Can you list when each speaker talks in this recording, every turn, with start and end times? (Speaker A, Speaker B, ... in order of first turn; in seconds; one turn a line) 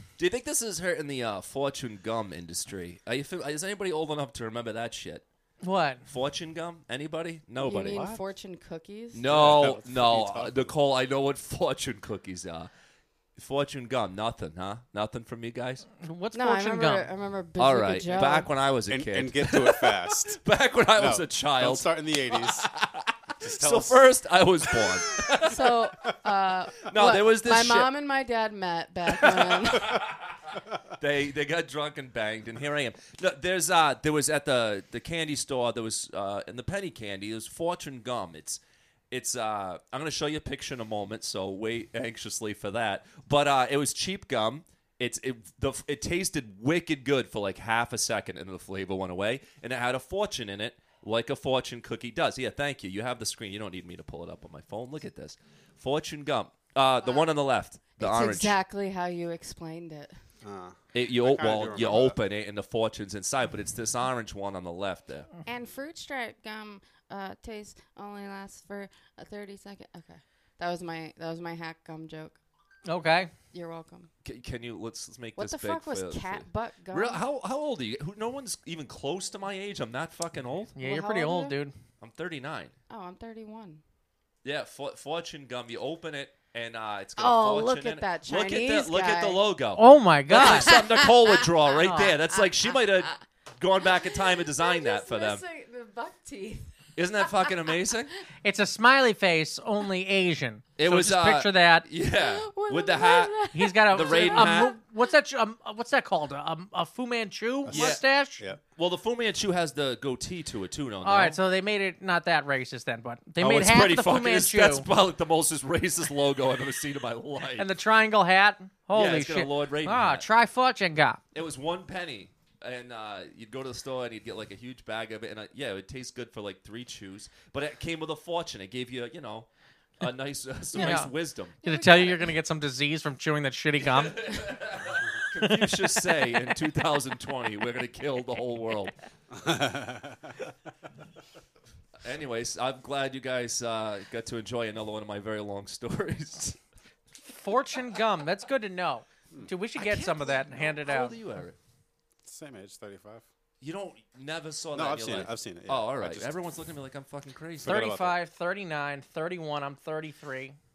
Speaker A: 0.2-5.2
Speaker B: 5.6-6.1
Speaker A: 6.1-8.1
Speaker C: 7.6-9.5
Speaker D: 7.9-8.2
Speaker A: 9.1-12.7
Speaker D: 9.2-10.7
Speaker A: 13.3-15.8
Speaker B: 16.0-17.1
Speaker C: 16.3-18.5
Speaker A: 17.6-25.8
Speaker D: 18.9-20.4
Speaker D: 20.9-22.7
Speaker D: 23.4-24.1
Speaker C: 25.4-30.1
Speaker A: 26.8-27.9
Speaker A: 29.1-58.6
Speaker C: 57.0-57.3
Speaker C: 58.0-60.2
Speaker D: 60.4-62.2
Speaker A: 60.9-65.3
Speaker C: 65.4-72.4
Speaker B: 72.8-73.3
Speaker C: 73.5-74.1
Speaker A: 74.2-80.7
Speaker C: 75.3-77.2
Speaker B: 80.8-81.7
Speaker C: 80.8-81.6
Speaker A: 82.0-82.7
Speaker C: 82.9-83.8
Speaker A: 84.4-95.4
Speaker C: 87.2-89.4
Speaker B: 89.8-90.7
Speaker C: 90.6-91.3
Speaker C: 91.8-92.1
Speaker C: 94.4-97.5
Speaker A: 97.0-98.1
Speaker B: 98.4-101.9
Speaker A: 100.8-104.7
Speaker C: 102.1-104.8
Speaker B: 103.5-108.4
Speaker D: 107.7-108.6
Speaker A: 107.7-108.0
Speaker A: 108.8-111.4
Speaker B: 111.0-114.9
Speaker A: 113.4-117.7
Speaker B: 117.5-121.2
Speaker A: 118.9-120.3
Speaker A: 121.3-129.5
Speaker A: 130.0-131.6
Speaker B: 130.7-134.5
Speaker C: 131.6-132.3
Speaker A: 133.8-138.9
Speaker B: 135.4-135.7
Speaker D: 139.3-140.3
Speaker A: 142.0-146.6
Speaker B: 147.2-151.2
Speaker A: 149.8-151.6
Speaker D: 152.2-153.2
Speaker A: 153.6-157.9
Speaker D: 154.7-156.3
Speaker D: 157.6-158.2
Speaker B: 157.6-160.6